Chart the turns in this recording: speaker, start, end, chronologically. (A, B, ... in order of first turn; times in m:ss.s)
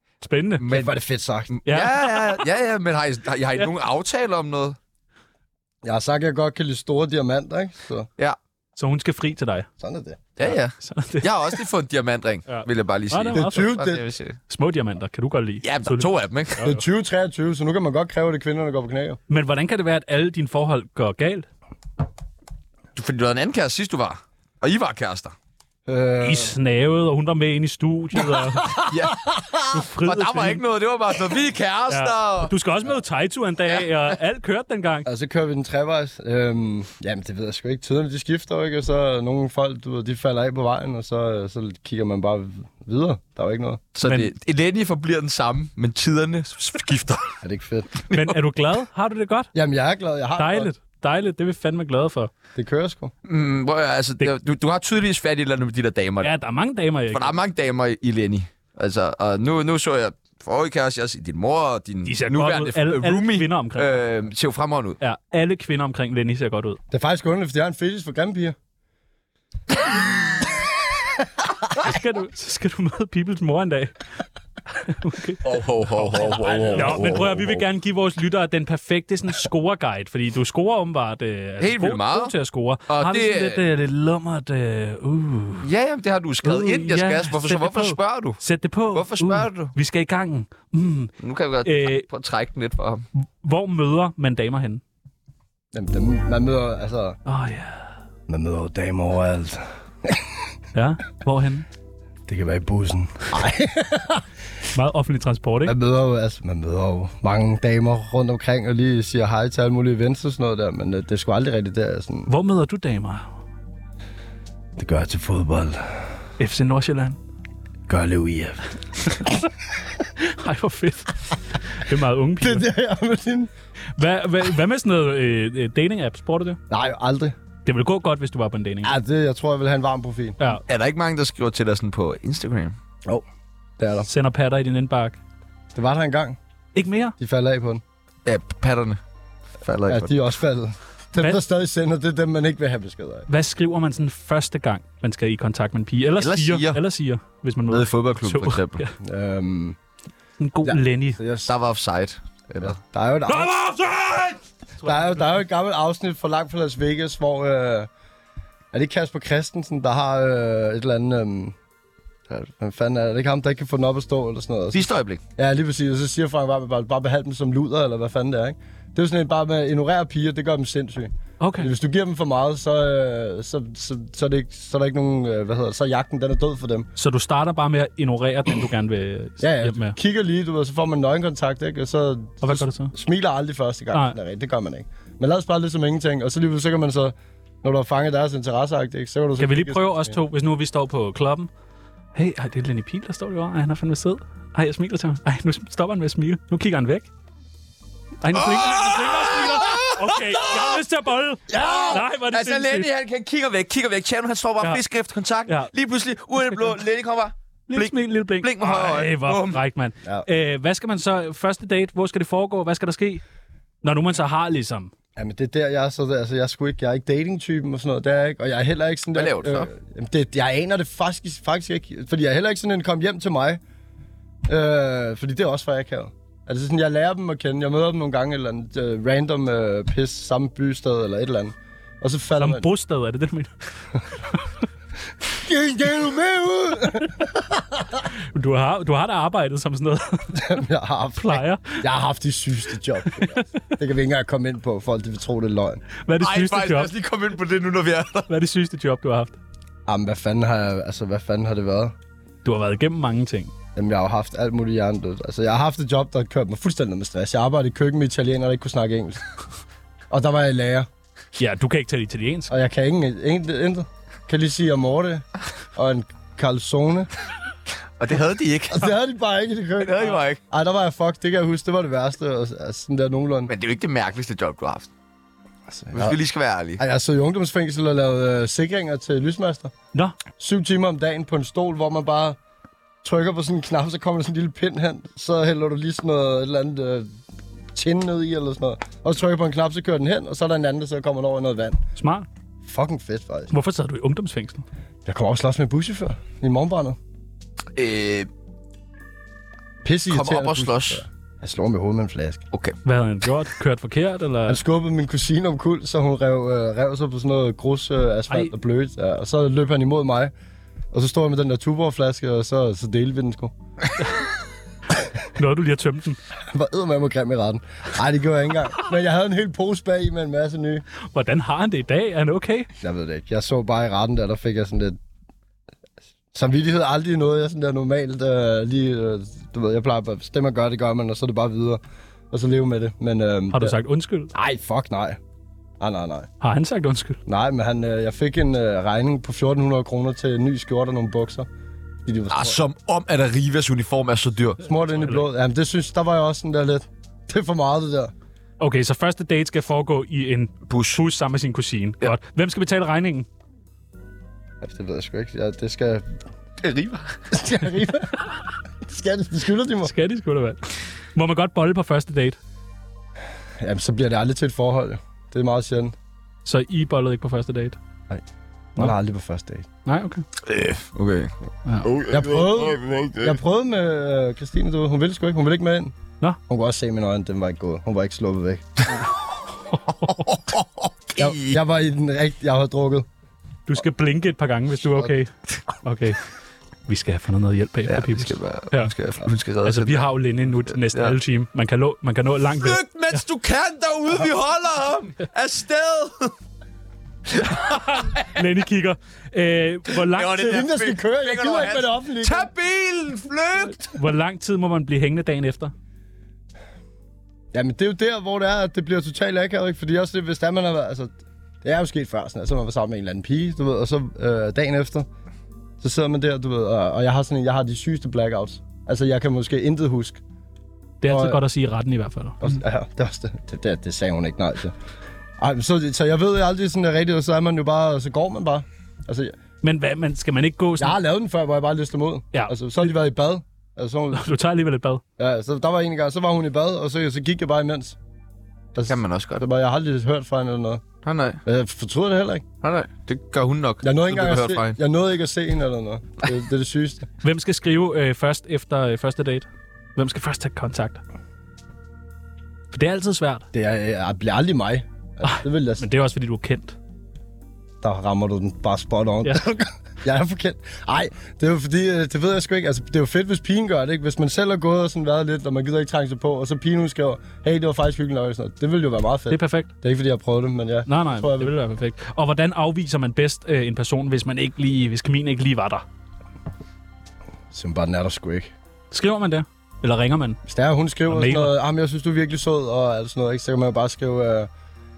0:00.2-0:00.7 A
0:00.6-0:00.9 B
0:00.7-0:01.5 C
0:01.5-0:04.8 B
0:01.7-0:02.4 A
0:05.8-0:08.1 C
0:08.8-0:09.7 A
0:09.8-0:10.5 C
0:10.4-0:14.4 B
0:10.8-0:11.6 A
0:12.5-0:13.8 A
0:13.3-0:14.0 C
0:14.5-0:16.8 A
0:15.6-0:16.6 B
0:16.6-0:19.2 C
0:19.3-0:21.5 A
0:23.0-0:25.3 B
0:25.9-0:26.6 C
0:26.2-0:28.7 A
0:28.4-0:28.9 C
0:28.8-0:32.5 B
0:29.7-0:30.6 A
0:31.9-0:35.1 A
0:35.0-0:43.8 C
0:44.0-0:47.4 B
0:44.0-0:44.3 A
0:47.4-0:47.9 C
0:48.0-0:48.4 B
0:48.1-0:49.5 A
0:49.5-0:50.7 C
0:50.4-0:52.3 A
0:52.6-0:53.1 C
0:53.2-0:56.3 B
0:56.2-0:57.4 A
0:57.1-1:05.0 B
1:02.0-1:04.0 A
1:05.0-1:06.8 A
1:06.9-1:08.6 C
1:11.8-1:14.0 A
1:14.8-1:25.7 A
1:15.4-1:17.2 B
1:16.2-1:17.6 C
1:21.6-1:22.4 B
1:22.9-1:23.6 B
1:25.6-1:28.4 B
1:26.4-1:31.1 A
1:28.9-1:29.7 B
1:31.2-1:33.1 B
1:31.6-1:32.1 A
1:33.2-1:34.8 A
1:35.7-1:37.2 C
1:37.3-1:38.0 A
1:38.3-1:40.3 C
1:40.8-1:41.7 A
1:42.3-1:44.3 C
1:44.7-1:45.8 A
1:45.6-1:52.3 C
1:52.3-1:53.3 A
1:54.8-1:56.0 C
1:56.4-1:57.2 A
1:57.9-1:58.7 C
2:00.2-2:02.7 A
2:02.4-2:03.5 C
2:04.0-2:06.6 A
2:06.7-2:07.4 C
2:07.6-2:08.9 A
2:08.8-2:10.4 C
2:10.7-2:12.8 B
2:13.8-2:14.1 C
2:14.1-2:15.2 A
2:15.8-2:16.4 C
2:16.8-2:17.2 A
2:17.2-2:17.8 C
2:18.3-2:19.0 B
2:19.6-2:20.2 B
2:19.9-2:23.3 C
2:23.3-2:29.0 A
2:26.2-2:26.8 B
2:27.7-2:28.8 B
2:29.0-2:29.8 C
2:30.4-2:31.2 A
2:30.6-2:31.5 C
2:31.4-2:32.8 B
2:32.6-2:33.6 C
2:33.3-2:35.4 A
2:34.8-2:37.9 C
2:38.7-2:41.6 C
2:42.3-2:56.9 C
2:44.7-2:45.2 B
2:51.4-2:51.7 A
2:57.0-3:00.0 A
2:59.4-3:10.2 C
3:02.4-3:02.9 A
3:09.4-3:11.5 A
3:12.2-3:17.1 A
3:18.2-3:22.9 A
3:18.3-3:20.8 B
3:21.5-3:22.0 C
3:21.5-3:29.6 B
3:27.7-3:33.2 A
3:33.8-3:34.9 A
3:35.2-3:43.6 C
3:39.2-3:39.7 B
3:44.5-3:52.7 C
3:52.4-3:53.5 A
3:55.3-3:58.0 C
3:58.3-4:00.4 A
4:00.3-4:05.8 C
4:01.2-4:01.8 A
4:03.1-4:03.4 A
4:06.0-4:06.9 A
4:06.2-4:08.3 B
4:08.3-4:09.4 A
4:09.9-4:12.0 C
4:12.4-4:13.5 A
4:13.8-4:19.2 C
4:20.1-4:20.9 C
4:21.4-4:22.5 A
4:22.5-4:27.1 C
4:28.0-4:29.0 B
4:28.7-4:33.5 C
4:29.8-4:30.4 B
4:33.5-4:34.9 B
4:35.7-4:36.2 C
4:35.9-4:36.8 B
4:36.8-4:39.7 C
4:40.4-4:42.4 C
4:43.0-4:47.2 C
4:47.8-4:51.8 C
4:52.0-4:52.3 A
4:52.6-4:53.5 C
4:53.5-4:54.6 A
4:55.0-4:57.0 C
4:57.8-4:58.3 B
4:59.8-5:02.4 C
5:00.1-5:01.0 B
5:02.8-5:04.6 A
5:04.5-5:10.3 C
5:10.9-5:13.5 C
5:15.3-5:16.2 A
5:16.5-5:20.8 C
5:21.1-5:22.7 A
5:22.8-5:25.0 C
5:26.3-5:33.8 C
5:33.5-5:34.3 A
5:34.3-5:35.2 C
5:35.8-5:36.3 C
5:36.4-5:37.2 A
5:37.3-5:41.5 C
5:42.0-5:42.6 C
5:42.3-5:44.6 B
5:44.6-5:48.1 C
5:44.9-5:45.2 A
5:48.6-5:53.3 A
5:50.7-5:51.0 B
5:54.6-5:56.1 C
5:56.6-5:57.2 B
5:57.3-5:58.3 C
5:58.8-5:59.9 C
5:59.8-6:02.4 A
6:03.6-6:06.0 C
6:06.4-6:07.8 A
6:08.8-6:09.7 C
6:09.9-6:10.2 A
6:10.4-6:11.3 B
6:11.7-6:11.9 A
6:11.9-6:13.1 B
6:12.0-6:15.9 C
6:16.5-6:18.8 C
6:19.7-6:20.2 A
6:20.1-6:21.6 B
6:21.2-6:23.1 C
6:23.7-6:25.3 A
6:25.8-6:26.2 A
6:26.9-6:28.9 A
6:27.9-6:30.1 B
6:29.6-6:33.2 A
6:30.7-6:31.2 B
6:32.6-6:36.3 B
6:37.3-6:38.3 B
6:37.7-6:40.6 A
6:40.0-6:44.0 B
6:40.4-6:42.5 C
6:43.8-6:45.7 A
6:47.5-6:55.1 C
6:55.8-7:00.2 C
7:01.0-7:02.6 A
7:01.1-7:01.4 C
7:02.4-7:04.8 C
7:05.4-7:09.4 C
7:09.6-7:11.0 A
7:10.8-7:14.3 C
7:14.1-7:15.0 A
7:15.2-7:18.0 C
7:18.7-7:20.8 C
7:18.9-7:19.4 B
7:21.0-7:21.4 B
7:21.4-7:22.5 C
7:22.6-7:24.8 B
7:23.8-7:27.1 C
7:27.2-7:31.0 A
7:32.7-7:33.4 A
7:33.5-7:35.9 C
7:35.2-7:36.8 A
7:37.8-7:51.5 C
7:39.2-7:39.5 A
7:49.3-7:49.7 A
7:50.9-7:55.8 A
7:57.5-7:58.5 C
7:58.9-8:00.4 A
8:00.5-8:04.5 C
8:01.1-8:01.5 A